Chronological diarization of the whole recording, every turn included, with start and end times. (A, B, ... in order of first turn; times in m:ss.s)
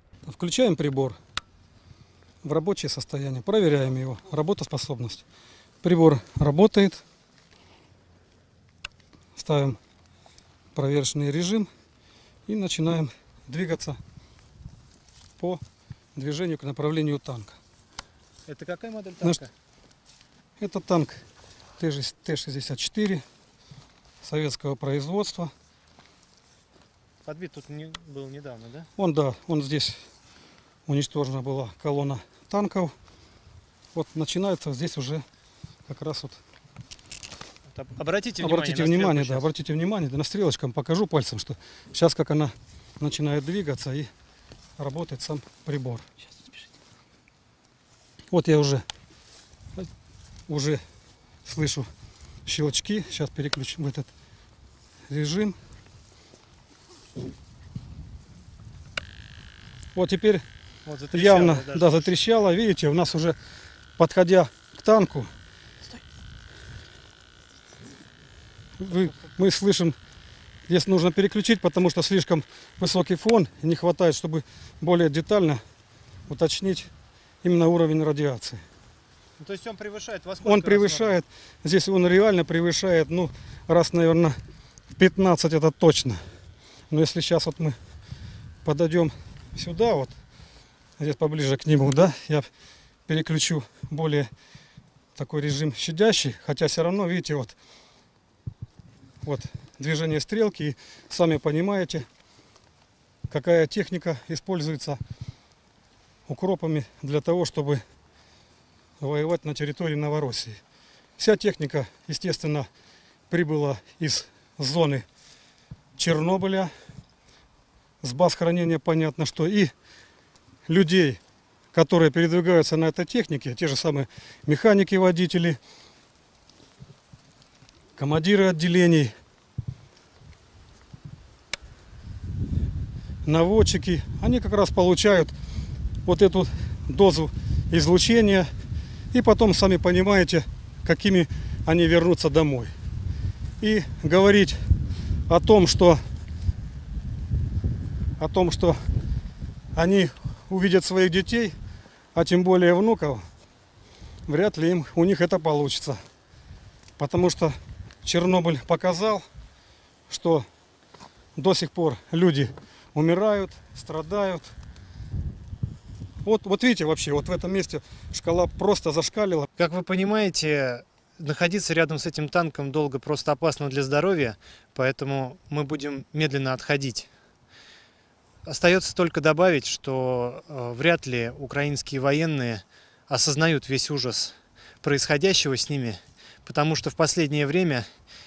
0:00.2-0:01.2 A
0:02.4-0:05.2 A
0:05.8-0:07.0 A
0:09.4-0:09.8 A
0:10.7-0:11.7 A
0:12.5-0:14.0 A
0:16.1-0:17.6 A
0:18.5-0:19.5 B
0:20.6-0:21.2 A
0:21.8-0:23.2 A
0:24.2-0:25.5 A
0:27.2-0:28.9 B
0:29.0-0:30.0 A
0:30.9-0:32.9 A
0:33.9-0:35.2 A
0:35.9-0:36.4 A
0:37.7-0:39.4 B
0:38.4-0:44.1 A
0:44.8-0:46.0 A
0:48.3-0:48.8 A
0:50.5-0:50.8 A
0:51.4-0:51.9 A
0:52.4-0:54.1 A
0:55.1-0:55.6 A
0:59.9-1:00.4 A
1:00.8-1:02.1 B
1:01.1-1:03.4 A
1:04.0-1:05.3 A
1:08.8-1:09.9 A
1:10.7-1:15.6 A
1:16.3-1:16.9 A
1:17.4-1:18.6 A
1:19.4-1:21.2 B
1:20.4-1:24.4 A
1:24.9-1:26.2 A
1:26.9-1:27.8 A
1:28.6-1:30.1 A
1:31.0-1:32.5 A
1:33.1-1:34.3 A
1:35.2-1:37.5 A
1:39.2-1:42.0 A
1:43.3-1:45.0 A
1:46.3-1:47.8 A
1:49.0-1:50.6 A
1:51.2-1:52.7 A
1:53.3-1:55.0 A
1:56.0-1:56.7 A
1:58.0-1:59.7 A
2:00.7-2:01.2 A
2:01.7-2:05.6 A
2:08.0-2:09.1 A
2:13.2-2:15.3 A
2:16.0-2:18.5 A
2:19.1-2:22.7 A
2:23.6-2:24.6 A
2:25.3-2:26.0 A
2:28.2-2:28.8 A
2:29.7-2:31.5 A
2:32.1-2:33.2 A
2:34.3-2:36.0 A
2:37.0-2:39.2 A
2:40.1-2:40.4 A
2:41.4-2:44.5 A
2:46.2-2:49.5 A
2:49.6-2:57.1 B
2:58.4-3:07.9 B